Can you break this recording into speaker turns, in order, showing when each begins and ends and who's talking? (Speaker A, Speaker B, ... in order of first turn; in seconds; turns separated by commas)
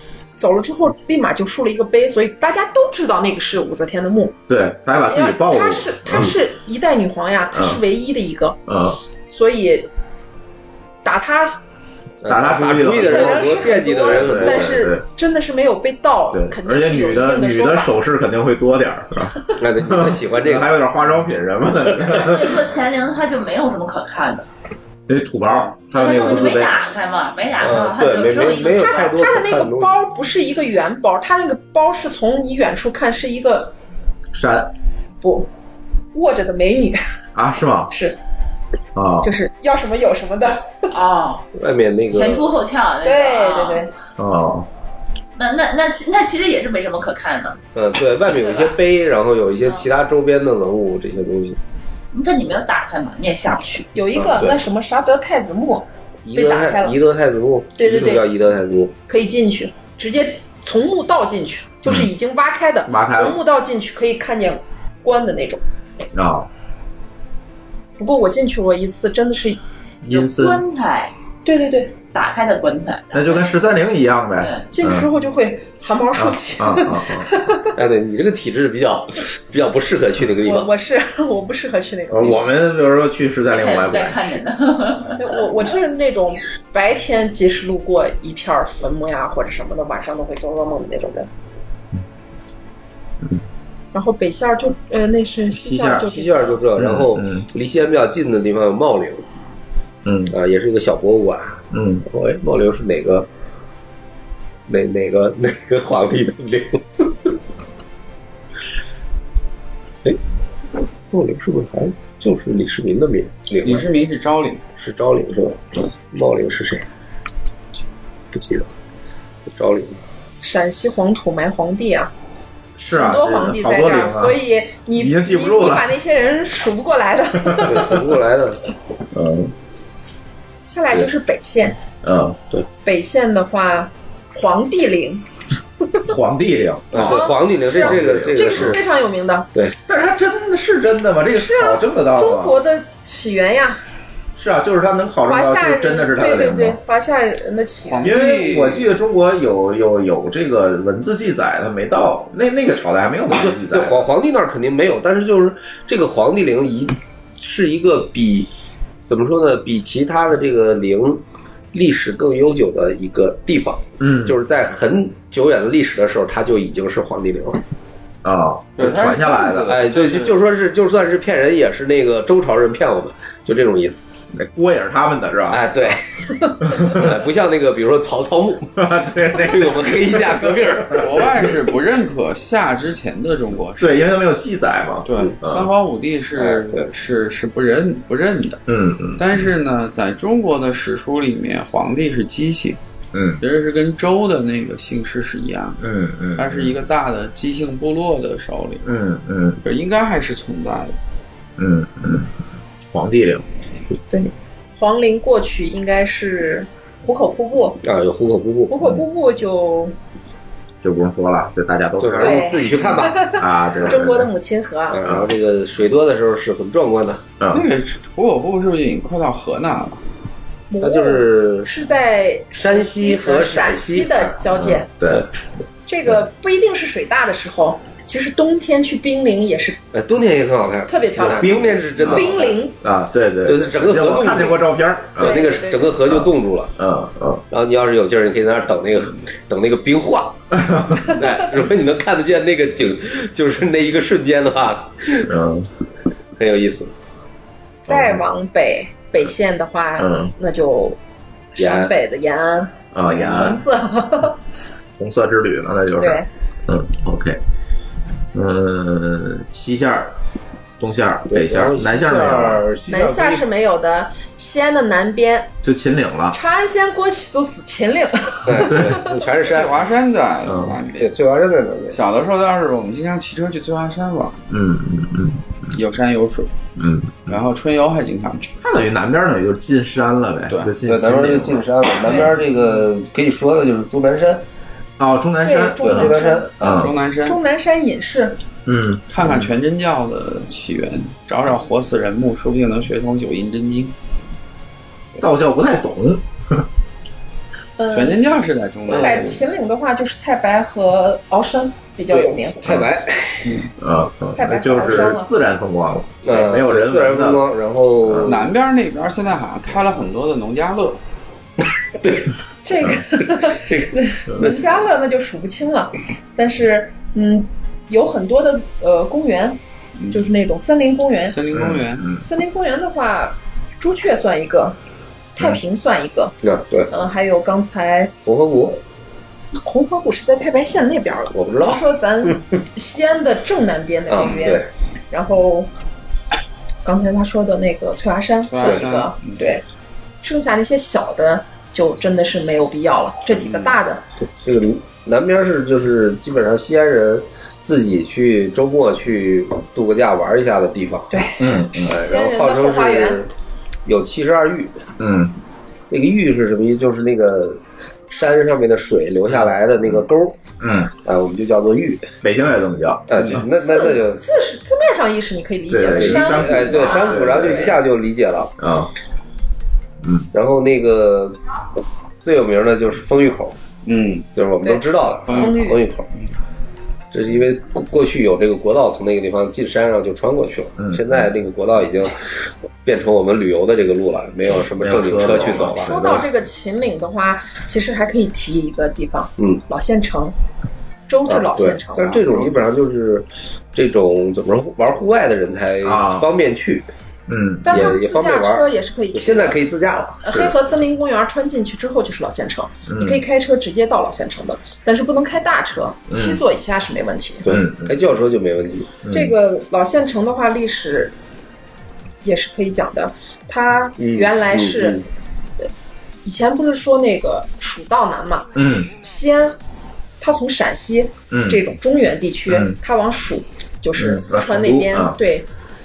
Speaker A: 0.4-4.4, Speaker B: 4.5-6.3, Speaker A: 5.1-8.6, Speaker B: 7.5-7.8, Speaker B: 8.7-9.0, Speaker A: 9.3-9.9, Speaker A: 11.0-11.6, Speaker C: 12.2-14.8, Speaker B: 12.2-15.0, Speaker A: 12.8-17.9, Speaker B: 16.3-22.6, Speaker C: 19.6-20.7, Speaker D: 22.0-24.5, Speaker B: 25.1-26.8, Speaker D: 25.9-29.1, Speaker C: 27.6-29.9, Speaker A: 28.7-33.7, Speaker B: 34.3-34.7, Speaker A: 35.2-35.5, Speaker A: 36.1-37.0, Speaker B: 37.3-37.9, Speaker A: 37.9-38.2, Speaker B: 38.9-39.3, Speaker A: 39.2-40.7, Speaker D: 40.9-41.5, Speaker C: 41.5-42.5, Speaker D: 42.1-43.9, Speaker A: 43.0-43.9, Speaker B: 44.2-44.7, Speaker D: 45.4-47.6, Speaker C: 47.7-51.6, Speaker D: 48.3-48.8, Speaker D: 52.1-53.9, Speaker A: 53.9-57.0, Speaker C: 54.1-54.6, Speaker C: 56.2-58.9, Speaker A: 57.8-58.2, Speaker A: 59.1-65.6, Speaker B: 61.8-62.1, Speaker B: 62.9-63.4, Speaker B: 66.1-66.5, Speaker A: 68.0-69.6, Speaker B: 70.0-70.6, Speaker D: 70.1-71.1, Speaker A: 71.4-71.9, Speaker D: 72.1-73.5, Speaker B: 73.1-75.1, Speaker A: 74.7-77.7, Speaker B: 76.1-77.3, Speaker C: 77.7-80.7, Speaker A: 80.4-82.4, Speaker B: 82.1-84.3, Speaker D: 83.5-85.3, Speaker A: 85.2-91.3, Speaker A: 93.9-96.6, Speaker B: 95.5-96.1, Speaker C: 96.0-99.2, Speaker B: 96.8-97.5, Speaker B: 100.0-100.3, Speaker C: 100.3-103.3, Speaker B: 101.7-102.0, Speaker C: 104.7-107.3, Speaker C: 111.1-113.9, Speaker E: 113.6-114.6, Speaker C: 114.8-116.9, Speaker C: 118.3-118.7, Speaker C: 119.5-120.0, Speaker A: 120.4-122.1, Speaker B: 122.8-124.4, Speaker A: 122.9-128.0, Speaker B: 124.9-125.9, Speaker C: 127.6-128.6, Speaker B: 129.1-129.5, Speaker A: 130.7-131.8, Speaker B: 132.0-132.4, Speaker A: 132.8-135.2, Speaker B: 136.1-138.8, Speaker C: 136.9-138.8, Speaker A: 137.0-139.5, Speaker B: 139.8-142.6, Speaker A: 141.3-143.8, Speaker B: 144.3-146.8, Speaker A: 145.2-148.2, Speaker E: 147.8-148.9, Speaker B: 148.0-154.0, Speaker C: 153.3-158.5, Speaker C: 159.1-167.6, Speaker B: 164.0-164.4, Speaker B: 168.2-169.8, Speaker E: 168.8-170.4, Speaker C: 169.7-174.0, Speaker B: 174.3-175.6, Speaker C: 175.5-176.0, Speaker B: 176.7-177.1, Speaker C: 176.7-178.8, Speaker B: 178.8-181.3, Speaker C: 179.3-181.4, Speaker E: 180.9-184.0, Speaker B: 183.8-185.7, Speaker E: 185.0-188.6, Speaker C: 186.3-186.9, Speaker B: 188.7-189.5, Speaker E: 189.2-192.8, Speaker B: 193.1-193.4, Speaker E: 193.4-195.8, Speaker B: 195.8-196.8, Speaker E: 196.4-198.9, Speaker B: 198.8-199.6, Speaker E: 199.6-201.0, Speaker B: 201.6-202.3, Speaker B: 202.9-203.4, Speaker A: 204.1-207.8, Speaker C: 207.8-208.8, Speaker A: 208.7-209.9, Speaker B: 210.8-214.3, Speaker C: 212.0-213.3, Speaker A: 212.2-215.0, Speaker C: 214.9-217.3, Speaker B: 215.0-215.3, Speaker B: 217.4-217.7, Speaker E: 217.5-220.0, Speaker A: 220.7-224.9, Speaker C: 220.8-221.7, Speaker C: 222.5-224.3, Speaker B: 224.5-225.2, Speaker A: 225.9-229.8, Speaker C: 229.9-232.6, Speaker A: 230.9-232.8, Speaker B: 231.2-232.3, Speaker B: 232.8-237.4, Speaker C: 233.4-234.7, Speaker C: 235.2-236.7, Speaker A: 235.2-236.0, Speaker C: 237.5-245.3, Speaker B: 240.5-241.2, Speaker B: 245.2-245.7, Speaker C: 246.3-246.9, Speaker A: 247.8-251.0, Speaker B: 247.9-248.2, Speaker B: 250.0-250.3, Speaker A: 251.5-254.4, Speaker C: 251.6-251.9, Speaker B: 252.9-253.6, Speaker B: 255.0-257.4, Speaker A: 256.0-256.3, Speaker B: 258.3-260.1, Speaker B: 260.8-262.6, Speaker C: 261.3-263.4, Speaker A: 262.9-265.5, Speaker B: 265.6-266.4, Speaker A: 266.3-269.2, Speaker C: 268.4-269.8, Speaker B: 268.7-269.0, Speaker E: 269.4-271.1, Speaker B: 270.4-270.8, Speaker C: 271.0-272.0, Speaker E: 271.9-274.4, Speaker B: 274.5-275.8, Speaker E: 275.7-276.5, Speaker B: 276.8-277.4, Speaker E: 277.3-278.5, Speaker B: 278.6-281.6, Speaker E: 280.5-280.7, Speaker C: 280.8-284.4, Speaker B: 285.0-286.9, Speaker A: 285.4-286.5, Speaker C: 285.8-286.9, Speaker E: 286.7-287.4, Speaker A: 287.2-288.4, Speaker B: 288.6-289.5, Speaker E: 289.1-293.9, Speaker B: 295.2-296.6, Speaker A: 297.8-302.8, Speaker E: 297.9-299.4, Speaker C: 302.1-303.6, Speaker B: 303.8-307.5, Speaker A: 304.3-305.3, Speaker C: 306.2-308.5, Speaker B: 308.0-308.4, Speaker E: 308.2-311.0, Speaker C: 312.0-312.3, Speaker A: 312.6-319.6, Speaker C: 313.4-314.6, Speaker A: 320.1-321.4, Speaker E: 321.3-322.1, Speaker B: 321.5-322.2, Speaker A: 322.2-324.8, Speaker A: 325.4-326.4, Speaker C: 326.4-326.9, Speaker A: 326.9-328.1, Speaker C: 328.2-328.8, Speaker A: 329.6-335.7, Speaker C: 331.3-331.8, Speaker C: 334.1-334.7, Speaker A: 336.8-339.6, Speaker E: 338.5-339.4, Speaker A: 340.2-344.0, Speaker C: 344.4-351.2, Speaker A: 351.1-353.2, Speaker B: 351.4-352.0, Speaker C: 351.8-353.3, Speaker C: 353.8-354.8, Speaker B: 355.0-355.4, Speaker C: 355.9-360.4, Speaker B: 359.3-360.0, Speaker B: 360.6-360.9, Speaker C: 361.0-362.1, Speaker B: 362.2-363.4, Speaker C: 363.1-364.2, Speaker A: 363.5-367.7, Speaker B: 365.7-367.8, Speaker C: 365.8-368.5, Speaker B: 368.6-368.9, Speaker B: 370.0-370.3, Speaker C: 370.3-371.4, Speaker C: 372.2-373.6, Speaker E: 373.8-374.3, Speaker C: 374.3-376.1, Speaker A: 374.6-375.8, Speaker E: 375.3-375.6, Speaker C: 377.1-382.2, Speaker B: 380.8-381.3, Speaker C: 382.8-386.0, Speaker B: 384.6-386.2, Speaker A: 385.7-390.3, Speaker A: 391.1-392.2, Speaker C: 391.3-396.9, Speaker E: 392.1-392.6, Speaker B: 395.8-396.3, Speaker B: 397.3-397.9, Speaker A: 397.6-399.6, Speaker C: 397.7-400.5, Speaker A: 400.2-407.5, Speaker B: 402.9-403.2, Speaker B: 406.1-406.4, Speaker C: 407.4-408.9, Speaker B: 407.5-408.0, Speaker B: 409.0-409.3, Speaker A: 409.1-411.1, Speaker A: 412.2-415.0, Speaker C: 414.0-415.0, Speaker A: 416.2-419.6, Speaker B: 418.5-418.9, Speaker A: 420.2-425.4, Speaker B: 421.3-421.6, Speaker B: 422.5-422.8, Speaker B: 423.9-425.2